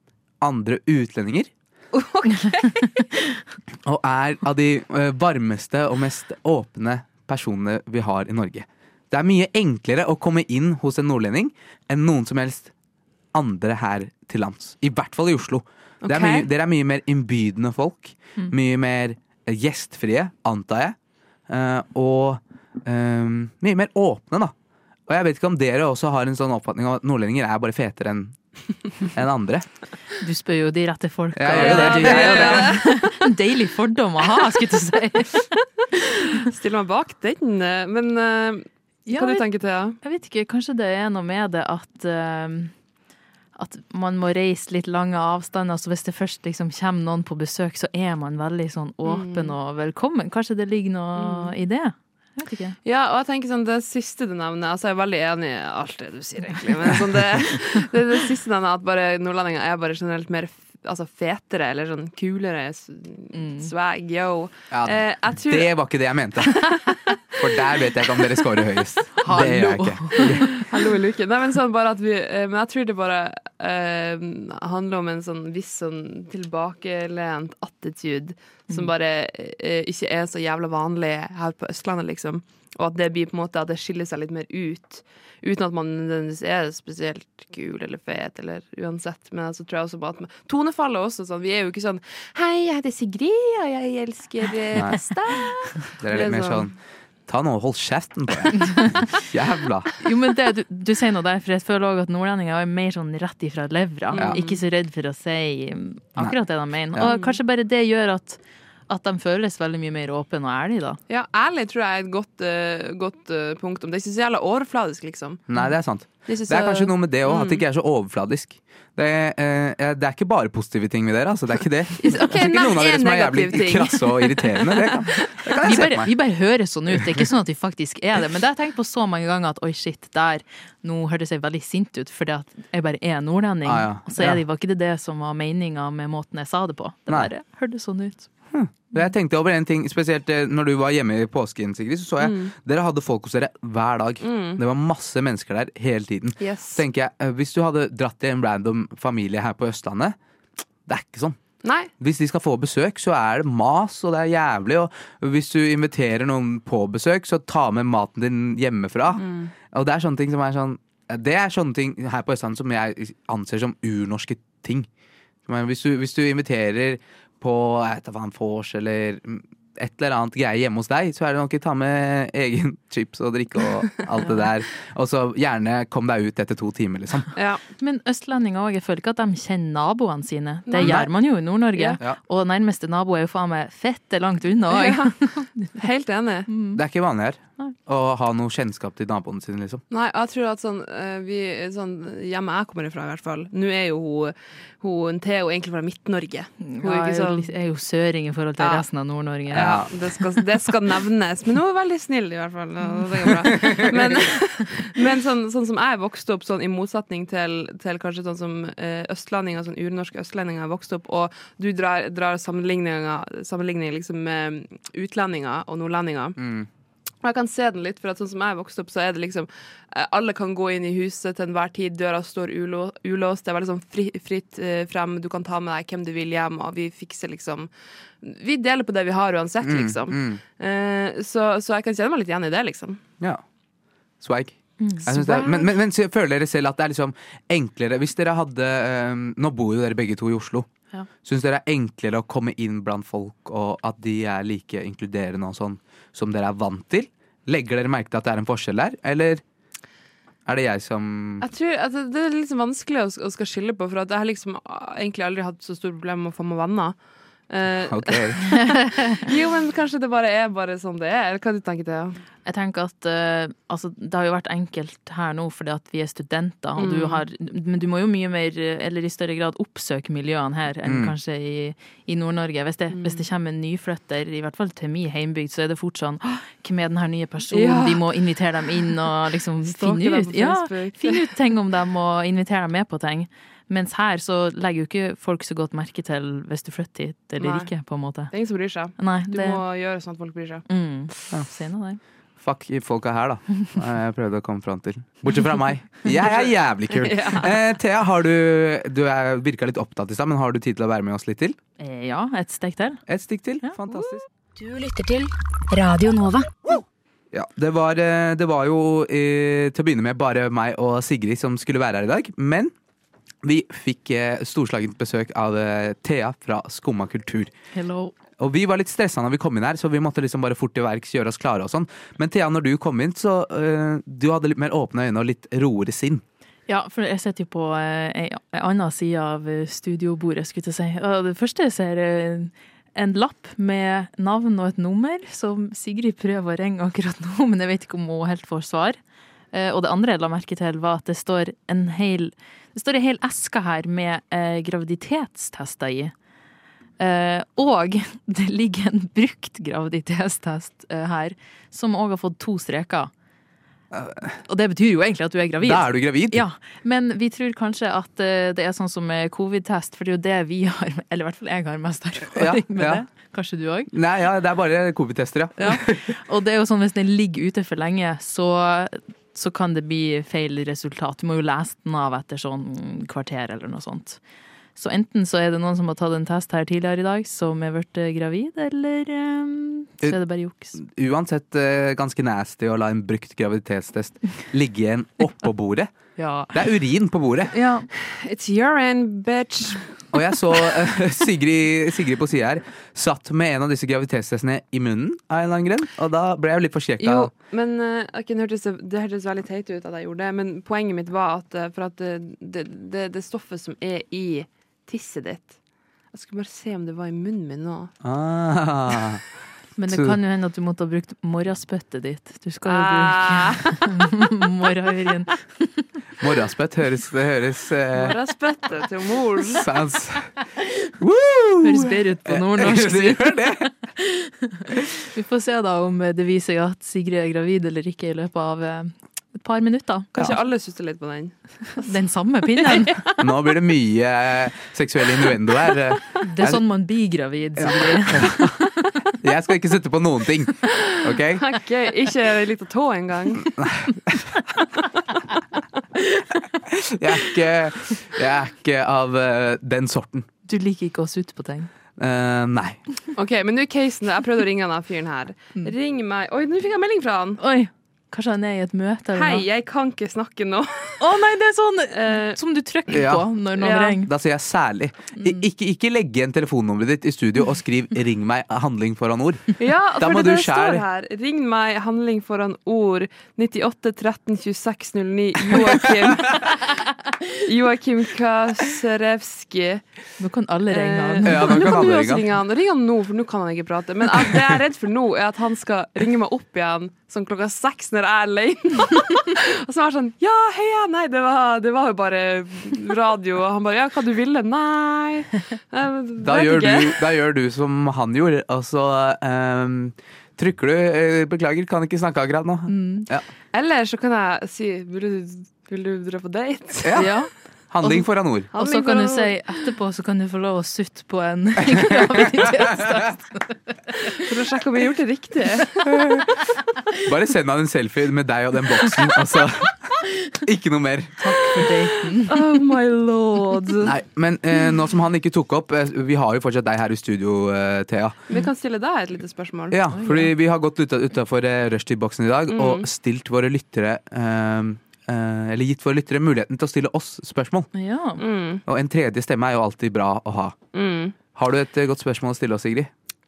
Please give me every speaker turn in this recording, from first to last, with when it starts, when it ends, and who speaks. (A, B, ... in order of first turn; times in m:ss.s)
0:00.4-0:01.5 A
0:01.9-0:03.1 B
0:03.8-0:12.7 A
0:13.3-0:21.0 A
0:16.0-0:16.5 B
0:21.5-0:24.5 A
0:25.1-0:28.4 A
0:29.1-0:29.7 A
0:30.2-0:35.7 C
0:31.4-0:32.7 A
0:31.6-0:33.0 B
0:36.5-0:40.0 B
0:39.1-0:42.8 C
0:43.6-0:52.8 C
0:49.0-0:49.6 B
0:51.2-0:51.5 B
0:52.8-1:05.7 B
1:03.3-1:03.7 C
1:04.7-1:06.6 A
1:06.9-1:07.4 B
1:07.4-1:10.4 A
1:09.2-1:10.6 C
1:10.2-1:36.7 B
1:36.0-1:36.8 A
1:37.3-1:39.9 A
1:40.0-1:51.0 C
1:44.1-1:44.6 B
1:47.0-1:47.4 B
1:51.1-1:55.4 B
1:55.5-2:06.1 A
1:56.3-1:57.6 B
2:02.0-2:05.3 B
2:05.6-2:18.3 C
2:13.6-2:14.4 A
2:18.5-2:30.2 A
2:22.2-2:22.5 B
2:24.2-2:24.6 B
2:26.4-2:26.8 B
2:30.9-2:31.4 A
2:31.6-2:31.9 B
2:32.0-2:44.9 A
2:39.2-2:39.5 B
2:45.4-2:57.3 A
2:57.4-2:57.6 B
2:57.8-3:05.7 C
3:00.7-3:01.1 B
3:01.7-3:02.0 B
3:04.7-3:05.2 B
3:05.7-3:06.5 B
3:06.5-3:06.8 C
3:06.8-3:09.8 A
3:09.9-3:17.5 B
3:16.6-3:19.9 C
3:18.6-3:18.9 B
3:19.5-3:36.4 B
3:19.5-3:19.9 A
3:23.6-3:23.9 C
3:36.4-3:36.7 A
3:37.2-3:47.7 B
3:48.2-3:53.0 B
3:49.6-3:50.4 A
3:54.2-4:00.7 A
3:55.0-3:55.8 B
4:01.2-4:09.4 A
4:10.5-4:11.4 A
4:11.4-4:17.0 B
4:17.5-4:22.2 B
4:17.9-4:18.4 A
4:22.4-4:48.3 C
4:26.8-4:27.2 B
4:30.9-4:31.1 A
4:32.9-4:33.3 B
4:37.5-4:38.1 B
4:39.6-4:41.3 B
4:47.4-4:47.7 B
4:48.3-4:50.7 B
4:49.0-4:49.6 C
4:50.7-4:52.0 C
4:52.4-5:01.6 A
4:56.2-4:57.5 B
5:01.8-5:03.0 C
5:03.1-5:04.2 A
5:04.6-5:06.5 D
5:07.3-5:12.7 A
5:13.4-5:17.5 A
5:17.7-5:18.1 C
5:18.4-5:26.2 A
5:26.7-5:39.0 C
5:39.5-5:46.1 C
5:47.0-5:53.1 C
5:53.9-5:54.4 A
5:54.5-6:03.9 C
5:55.6-5:56.4 A
6:02.3-6:03.1 A
6:03.9-6:06.0 A
6:05.6-6:14.2 C
6:14.8-6:20.8 C
6:20.7-6:25.9 A
6:26.2-6:26.5 B
6:26.5-6:27.6 A
6:27.5-6:27.9 C
6:27.9-6:30.0 B
6:30.1-6:37.3 A
6:37.0-6:45.6 B
6:46.1-6:47.9 B
6:48.0-6:49.2 A
6:49.8-6:55.5 C
6:49.9-6:50.2 A
6:52.7-6:53.8 B
6:56.2-6:58.2 A
6:57.9-6:59.7 B
6:59.6-7:00.3 A
7:01.0-7:03.7 A
7:01.6-7:10.1 C
7:10.1-7:11.9 B
7:11.8-7:13.1 C
7:13.2-7:16.6 A
7:16.2-7:18.7 C
7:17.6-7:18.6 A
7:19.2-7:21.4 A
7:20.8-7:23.5 B
7:23.4-7:24.4 A
7:26.7-7:30.3 A
7:30.4-7:31.7 C
7:32.0-7:32.8 A
7:33.1-7:37.4 B
7:37.4-7:39.4 C
7:39.1-7:41.2 B
7:41.0-7:44.1 C
7:41.9-7:42.4 B
7:42.9-7:43.3 A
7:43.6-7:44.0 B
7:44.0-7:50.8 A
7:45.2-7:45.4 C
7:49.6-7:56.5 B
7:57.4-7:59.8 B
8:00.2-8:01.8 C
8:00.7-8:17.0 B
8:01.2-8:02.2 A
8:16.2-8:23.2 A
8:22.7-8:23.1 C
8:23.5-8:27.2 B
8:26.8-8:27.1 A
8:26.9-8:34.2 C
8:27.7-8:28.5 A
8:28.5-8:29.4 B
8:34.2-8:35.9 B
8:35.9-8:36.2 A
8:37.1-8:41.6 A
8:41.2-8:42.6 C
8:42.1-8:43.9 B
8:43.8-8:48.2 A
8:48.3-8:49.8 B
8:49.7-8:57.7 A
8:49.9-8:50.3 C
8:52.5-8:52.9 B
8:57.7-8:58.2 C
8:58.2-8:58.6 B
8:58.7-9:00.6 A
9:00.7-9:01.2 B
9:01.3-9:02.9 A